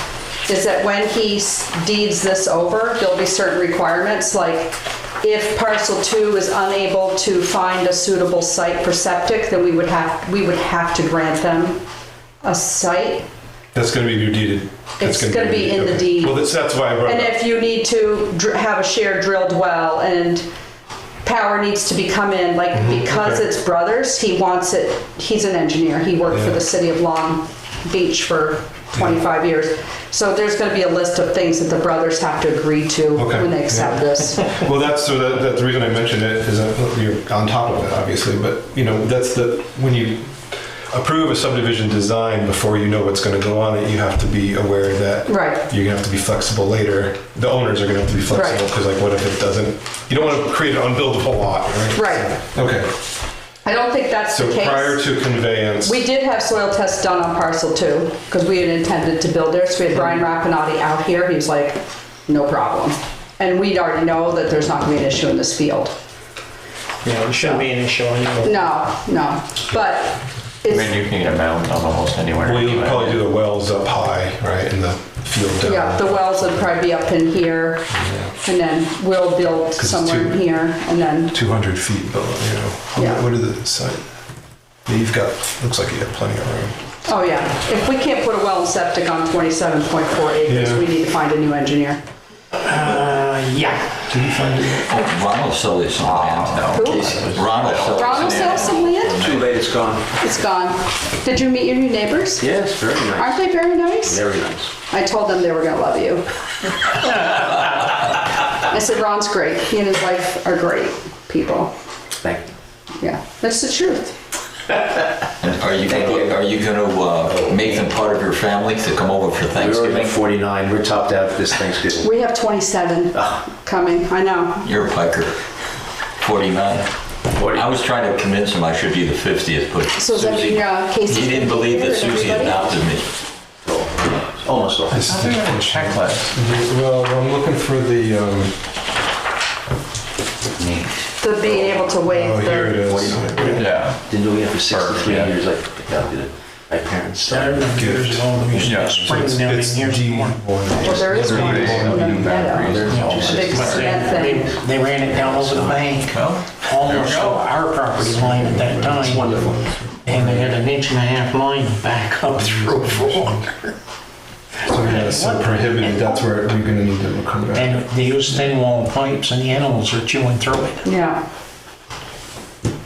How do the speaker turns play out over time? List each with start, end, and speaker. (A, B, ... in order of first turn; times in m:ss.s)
0:00.5-0:11.8 A
0:12.4-0:13.3 A
0:13.7-0:17.4 B
0:15.0-0:20.5 A
0:21.2-0:34.6 A
0:22.7-0:23.5 B
0:26.3-0:26.6 B
0:29.0-0:29.2 B
0:33.2-0:40.3 B
0:40.9-0:52.9 B
0:45.3-0:45.6 A
0:48.3-0:48.6 A
0:52.0-0:52.4 A
0:53.6-1:05.9 A
0:54.3-0:56.0 B
1:07.0-1:08.6 C
1:07.4-1:07.7 A
1:08.4-1:11.0 A
1:10.7-1:13.2 D
1:12.4-1:16.7 B
1:15.6-1:17.9 A
1:17.9-1:18.4 B
1:18.4-1:21.3 A
1:19.8-1:20.4 B
1:21.3-1:24.1 B
1:23.0-1:23.2 A
1:24.9-1:26.9 B
1:27.1-1:32.0 A
1:30.5-1:30.9 B
1:32.6-1:34.8 C
1:34.1-1:34.9 B
1:34.9-1:39.5 E
1:36.0-1:38.8 D
1:36.7-1:37.2 A
1:37.9-1:39.2 A
1:39.2-1:40.1 F
1:40.2-1:42.4 A
1:42.4-1:44.7 F
1:43.2-1:44.2 A
1:44.9-1:46.3 A
1:48.7-1:51.7 A
1:52.2-1:52.5 F
1:53.0-1:54.2 A
1:55.4-2:00.2 E
1:55.8-1:56.5 F
1:57.2-1:57.8 F
1:59.6-2:02.1 F
2:02.0-2:04.7 A
2:04.6-2:05.4 E
2:06.2-2:06.9 E
2:07.3-2:07.7 F
2:07.5-2:13.1 E
2:10.0-2:12.8 A
2:13.7-2:15.0 F
2:14.9-2:18.6 B
2:15.0-2:16.3 D
2:21.2-2:22.8 A
2:21.4-2:21.8 F
2:22.0-2:23.7 B
2:22.8-2:27.9 F
2:23.6-2:24.0 D
2:24.7-2:25.4 D
2:27.3-2:30.6 C
2:27.7-2:32.6 B
2:28.6-2:29.0 D
2:28.6-2:29.2 F
2:30.7-2:34.5 A
2:31.1-2:33.9 D
2:31.4-2:36.1 F
2:32.9-2:43.7 C
2:36.1-2:37.4 D
2:37.9-2:40.6 B
2:39.0-2:39.5 F
2:42.3-2:43.5 B
2:44.6-2:48.5 B
2:44.8-2:46.2 C
2:47.5-2:50.9 C
2:50.8-2:51.3 A